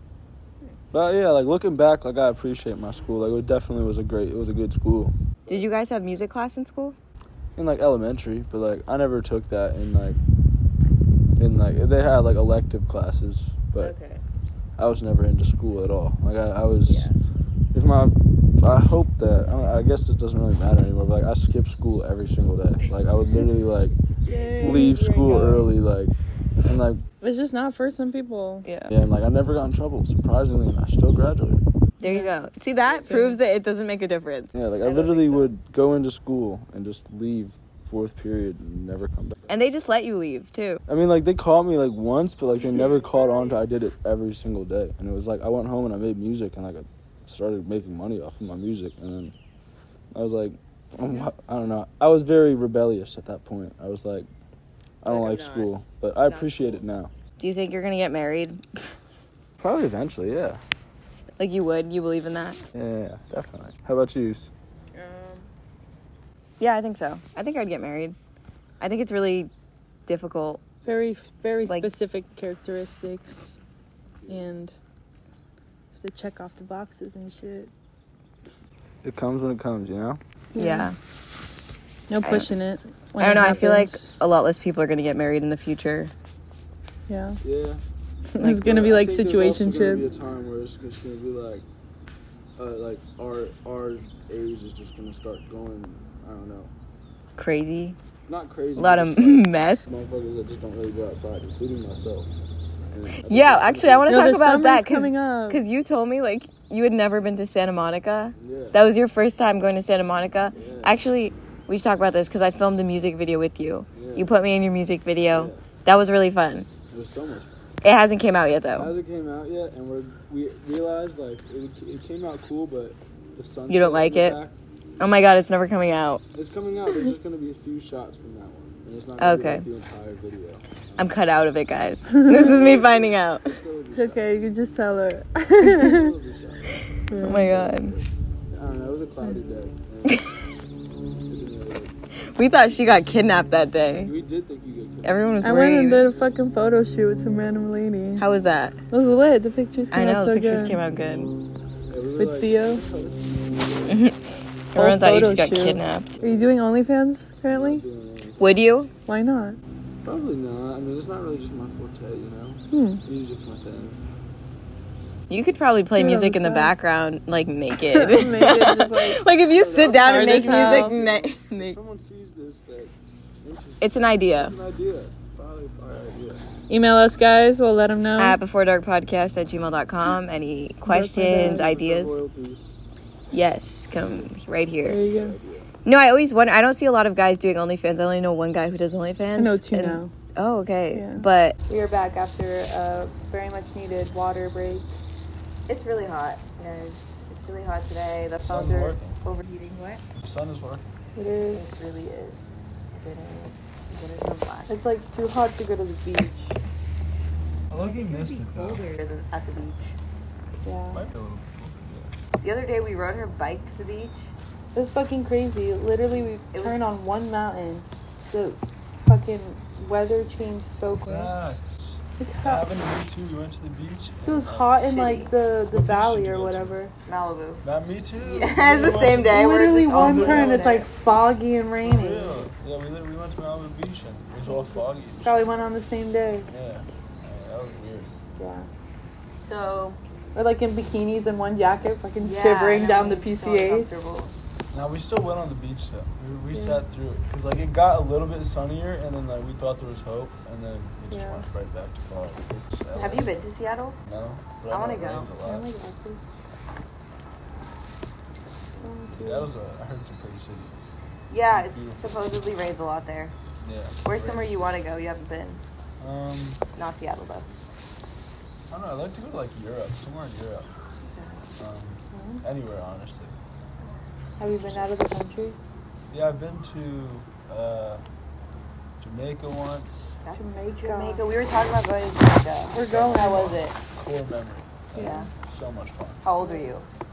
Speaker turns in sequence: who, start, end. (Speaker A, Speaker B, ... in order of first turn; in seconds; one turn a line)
Speaker A: 0.9-5.6
Speaker B: 5.5-7.0
Speaker A: 7.5-10.2
Speaker A: 11.4-13.9
Speaker B: 13.8-14.2
Speaker A: 14.8-17.1
Speaker B: 16.9-17.1
Speaker A: 17.7-23.9
Speaker C: 24.2-25.7
Speaker B: 24.3-24.9
Speaker A: 24.6-27.0
Speaker C: 27.2-28.7
Speaker B: 28.6-28.9
Speaker A: 28.9-31.6
Speaker B: 32.0-35.5
Speaker C: 32.0-32.3
Speaker C: 33.0-33.4
Speaker A: 34.5-39.5
Speaker B: 39.5-40.8
Speaker A: 40.9-49.4
Speaker A: 50.1-54.3
Speaker B: 51.0-51.3
Speaker A: 55.0-57.1
Speaker B: 55.0-55.7
Speaker B: 56.2-56.8
Speaker B: 57.4-58.8
Speaker A: 59.6-60.6
Speaker B: 61.4-62.6
Speaker A: 62.7-64.5
Speaker B: 64.9-65.5
Speaker B: 66.6-68.2
Speaker B: 68.8-69.5
Speaker B: 70.1-70.6
Speaker C: 70.8-73.6
Speaker A: 74.2-74.5
Speaker C: 74.3-74.8
Speaker C: 75.9-77.7
Speaker A: 79.0-80.2
Speaker C: 80.5-80.9
Speaker B: 80.5-81.0
Speaker C: 82.1-84.1
Speaker B: 82.2-82.5
Speaker B: 83.2-86.1
Speaker C: 87.1-87.4
Speaker A: 87.4-87.8
Speaker C: 88.3-90.0
Speaker B: 88.4-88.9
Speaker A: 88.5-91.7
Speaker A: 92.6-96.7
Speaker B: 97.4-98.0
Speaker A: 98.3-102.3
Speaker B: 98.8-99.8
Speaker A: 102.9-104.1
Speaker B: 103.2-116.7
Speaker C: 104.0-105.6
Speaker A: 108.4-108.8
Speaker A: 110.5-111.0
Speaker A: 113.9-114.3
Speaker A: 115.3-115.6
Speaker A: 116.9-117.6
Speaker B: 117.8-118.9
Speaker A: 118.8-124.5
Speaker B: 123.7-124.4
Speaker B: 125.0-126.2
Speaker A: 126.3-131.1
Speaker B: 129.2-129.7
Speaker B: 131.0-133.6
Speaker C: 132.1-132.4
Speaker A: 132.3-134.4
Speaker C: 133.9-136.1
Speaker A: 135.6-140.2
Speaker C: 137.1-137.4
Speaker B: 137.2-137.9
Speaker A: 141.3-141.9
Speaker B: 142.3-144.1
Speaker A: 144.0-145.3
Speaker B: 145.0-146.1
Speaker C: 145.4-148.2
Speaker B: 148.2-148.8
Speaker C: 148.9-150.8
Speaker B: 149.9-151.3
Speaker A: 151.9-154.1
Speaker C: 152.2-152.8
Speaker B: 153.9-156.1
Speaker C: 154.8-157.8
Speaker A: 156.1-156.5
Speaker A: 157.5-158.6
Speaker B: 158.4-158.9
Speaker C: 159.1-159.6
Speaker A: 160.0-164.0
Speaker C: 162.7-163.0
Speaker B: 165.3-171.8
Speaker C: 165.9-166.8
Speaker C: 167.8-169.2
Speaker A: 169.5-176.4
Speaker C: 169.8-170.9
Speaker B: 173.8-174.6
Speaker C: 176.7-178.4
Speaker B: 178.2-182.2
Speaker C: 180.8-181.7
Speaker A: 181.3-182.8
Speaker B: 183.3-185.0
Speaker A: 183.9-184.3
Speaker C: 184.9-185.4
Speaker A: 185.0-185.7
Speaker B: 185.8-191.6
Speaker C: 189.4-190.1
Speaker C: 190.9-194.9
Speaker B: 195.7-200.0
Speaker A: 198.4-199.2
Speaker A: 200.1-200.9
Speaker C: 201.1-201.6
Speaker B: 201.4-204.7
Speaker C: 204.7-206.6
Speaker A: 207.7-208.8
Speaker B: 207.7-209.9
Speaker C: 210.6-211.1
Speaker A: 210.9-212.2
Speaker B: 212.4-214.3
Speaker C: 214.7-221.3
Speaker B: 216.5-216.8
Speaker A: 221.0-224.8
Speaker C: 222.2-222.6
Speaker C: 224.2-226.9
Speaker B: 224.9-225.3
Speaker A: 225.7-226.8
Speaker B: 227.1-227.6
Speaker A: 227.6-230.8
Speaker B: 228.2-230.9
Speaker C: 229.3-232.4
Speaker A: 231.8-235.6
Speaker C: 234.4-236.5
Speaker A: 236.5-238.1
Speaker C: 238.4-238.7
Speaker B: 239.4-240.0
Speaker C: 240.3-243.9
Speaker B: 242.2-244.3
Speaker A: 244.7-253.3
Speaker C: 246.5-246.8
Speaker C: 251.1-251.4
Speaker B: 253.0-254.0
Speaker A: 254.1-255.7
Speaker B: 254.7-255.3
Speaker C: 255.4-256.2
Speaker C: 258.8-259.5
Speaker A: 259.1-260.8
Speaker B: 261.3-263.3
Speaker A: 261.5-262.0
Speaker A: 263.6-264.6
Speaker B: 264.0-265.6
Speaker A: 266.0-266.6
Speaker B: 266.8-267.5
Speaker A: 268.7-270.7
Speaker B: 271.0-271.5
Speaker A: 271.6-273.4
Speaker C: 272.1-272.4
Speaker C: 274.4-275.6
Speaker A: 276.1-278.0
Speaker A: 279.0-280.2
Speaker B: 280.2-283.8
Speaker C: 280.4-281.2
Speaker C: 282.7-283.6
Speaker A: 282.8-286.2
Speaker C: 284.9-285.3
Speaker B: 284.9-285.3
Speaker B: 286.2-286.9
Speaker C: 286.4-286.7